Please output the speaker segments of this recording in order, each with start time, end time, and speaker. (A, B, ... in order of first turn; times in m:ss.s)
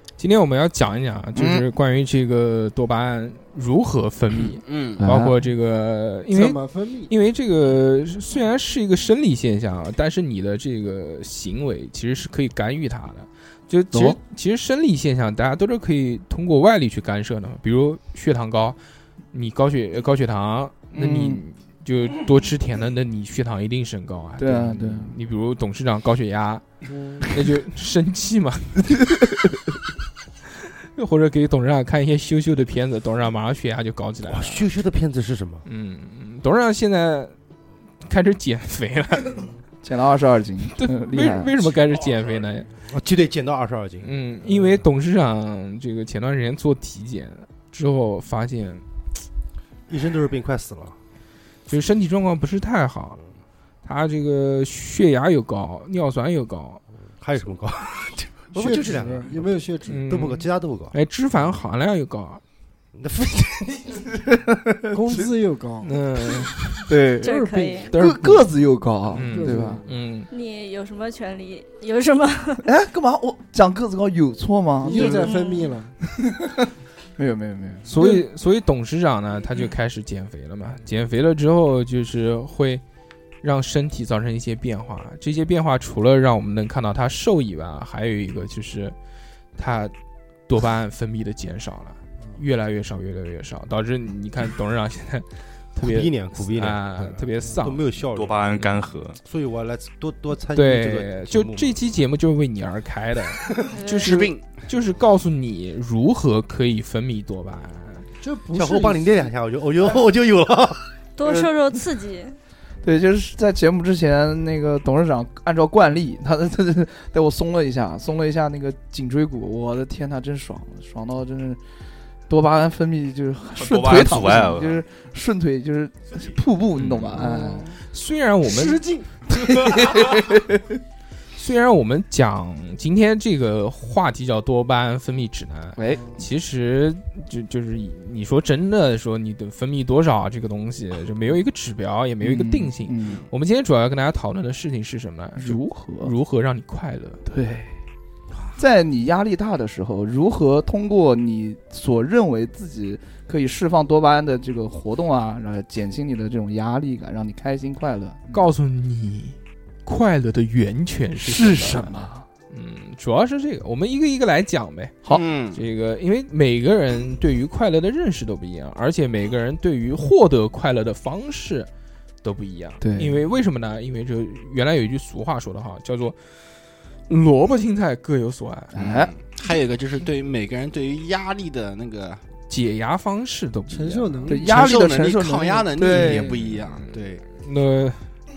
0:00.2-0:18.8 A
0:01.3-0:01.6 B
0:04.6-0:05.0 C
0:05.0-0:05.4 B
0:06.3-0:07.1 D
0:19.3-0:26.6 A
0:20.9-0:21.4 B
0:24.4-0:25.2 B
0:26.9-0:27.3 D
0:27.3-0:28.9 A
0:30.9-0:34.6 A
0:34.2-0:35.6 E
0:35.6-0:37.3 A
0:38.0-0:39.4 A
0:39.8-0:41.6 B
0:40.8-0:42.7 A
0:42.9-0:44.1 E
0:44.0-0:48.8 A
0:49.9-0:50.9 E
0:51.7-0:53.2 A
0:53.8-0:56.8 A
0:57.2-0:59.5 E
0:58.5-1:00.0 D
0:59.9-1:02.4 A
1:00.0-1:00.9 E
1:03.0-1:04.0 E
1:04.3-1:05.3 B
1:04.9-1:05.9 D
1:05.8-1:06.8 A
1:06.9-1:09.8 B
1:07.2-1:07.9 F
1:07.2-1:07.9 D
1:07.9-1:08.5 A
1:09.1-1:10.3 A
1:09.2-1:09.9 D
1:10.3-1:12.6 F
1:12.6-1:15.3 B
1:14.8-1:15.9 D
1:14.9-1:15.7 F
1:16.2-1:18.2 B
1:17.8-1:22.8 A
1:23.4-1:28.9 A
1:29.6-1:29.9 A
1:30.5-1:37.8 A
1:35.8-1:38.6 E
1:38.1-1:39.2 G
1:39.2-1:41.8 E
1:40.5-1:48.0 A
1:43.7-1:44.2 F
1:44.0-1:44.4 C
1:48.2-1:49.3 D
1:48.5-1:50.9 E
1:51.2-1:52.4 F
1:52.8-2:01.6 B
2:02.3-2:07.7 B
2:03.5-2:04.8 G
2:06.8-2:07.0 A
2:07.1-2:07.8 D
2:07.9-2:08.8 A
2:08.4-2:09.1 D
2:09.3-2:10.8 B
2:11.4-2:27.2 A
2:15.8-2:16.1 B
2:15.9-2:16.2 D
2:22.2-2:23.2 B
2:25.4-2:26.1 B
2:27.2-2:27.7 B
2:28.6-2:38.4 B
2:38.3-2:42.0 A
2:41.2-2:42.3 B
2:42.5-2:45.0 A
2:45.0-2:45.6 C
2:45.5-2:51.7 A
2:52.2-2:56.2 A
2:52.8-2:53.2 B
2:57.1-2:58.8 A
2:58.7-2:59.1 B
2:58.8-3:02.2 C
3:02.5-3:04.3 A
3:03.7-3:04.6 D
3:04.3-3:06.3 B
3:04.4-3:07.2 C
3:06.3-3:08.1 A